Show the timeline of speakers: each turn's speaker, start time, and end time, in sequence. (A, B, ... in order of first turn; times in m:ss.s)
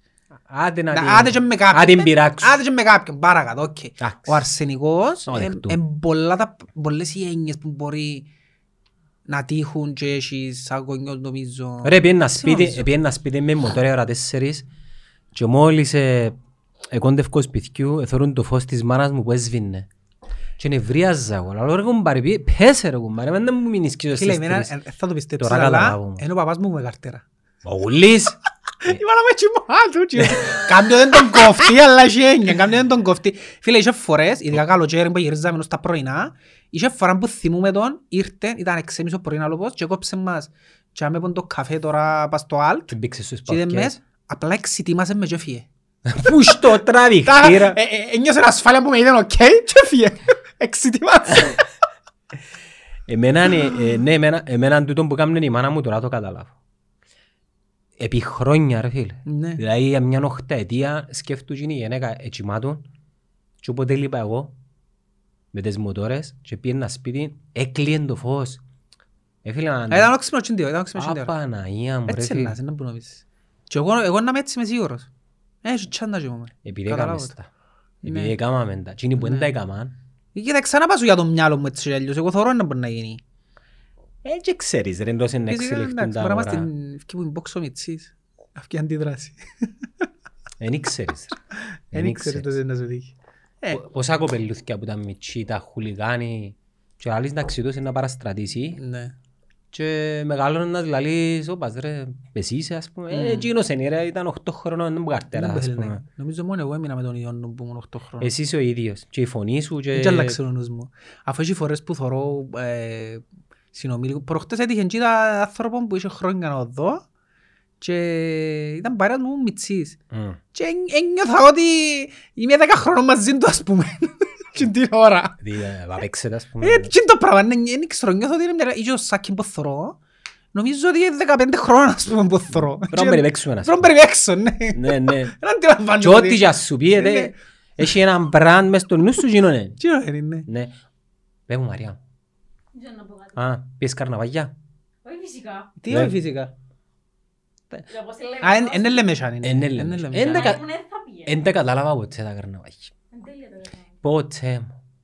0:00.5-0:02.6 A
0:00.9-0:08.3 B
0:04.0-0:04.4 A
0:05.3-0:05.8 A
0:09.3-0:12.9 B
0:11.8-0:14.7 A
0:15.3-0:16.4 A
0:16.9-0:19.9 A
0:20.6-0:24.7 A
0:24.2-0:27.2 B
0:25.4-0:26.2 A
0:27.6-0:29.0 A
0:28.8-0:42.9 B
0:30.2-0:31.5 A
0:42.9-0:44.0 A
0:43.5-0:45.7 B
0:46.0-0:47.8 A
0:47.2-0:51.7 B
0:53.1-0:56.5 A
0:58.0-1:02.8 A
0:59.3-0:59.6 B
1:03.6-1:04.6 A
1:05.5-1:08.6 A
1:09.4-1:10.1 A
1:09.9-1:11.3 B
1:11.0-1:12.6 A
1:12.1-1:15.1 B
1:15.6-1:17.3 B
1:16.6-1:17.5 A
1:18.0-1:19.9 A
1:18.0-1:18.4 B
1:19.2-1:19.5 B
1:20.4-1:23.2 B
1:24.2-1:26.7 A
1:25.5-1:29.9 B
1:30.6-1:31.4 A
1:31.5-1:33.8 B
1:31.9-1:32.5 A
1:33.7-1:38.8 A
1:38.8-1:39.2 B
1:39.7-1:46.0 A
1:43.1-1:43.5 B
1:45.3-1:48.3 B
1:48.2-1:50.4 A
1:49.9-1:57.0 B
1:57.8-2:00.0 B
2:00.1-2:00.4 A
2:00.5-2:05.4 B
2:05.4-2:06.9 A
2:06.6-2:10.0 B
2:10.5-2:17.4 B
2:12.9-2:13.9 A
2:14.7-2:15.3 A
2:16.0-2:19.8 A
2:19.8-2:20.5 B
2:20.5-2:20.7 A
2:21.5-2:22.0 A
2:22.7-2:23.4 C
2:23.4-2:24.5 A
2:25.0-2:25.8 C
2:25.8-2:26.5 B
2:25.9-2:26.2 A
2:27.9-2:29.1 C
2:28.4-2:30.6 B
2:29.4-2:30.6 A
2:30.2-2:31.4 C
2:31.3-2:32.9 A
2:33.1-2:33.9 C
2:34.0-2:34.8 A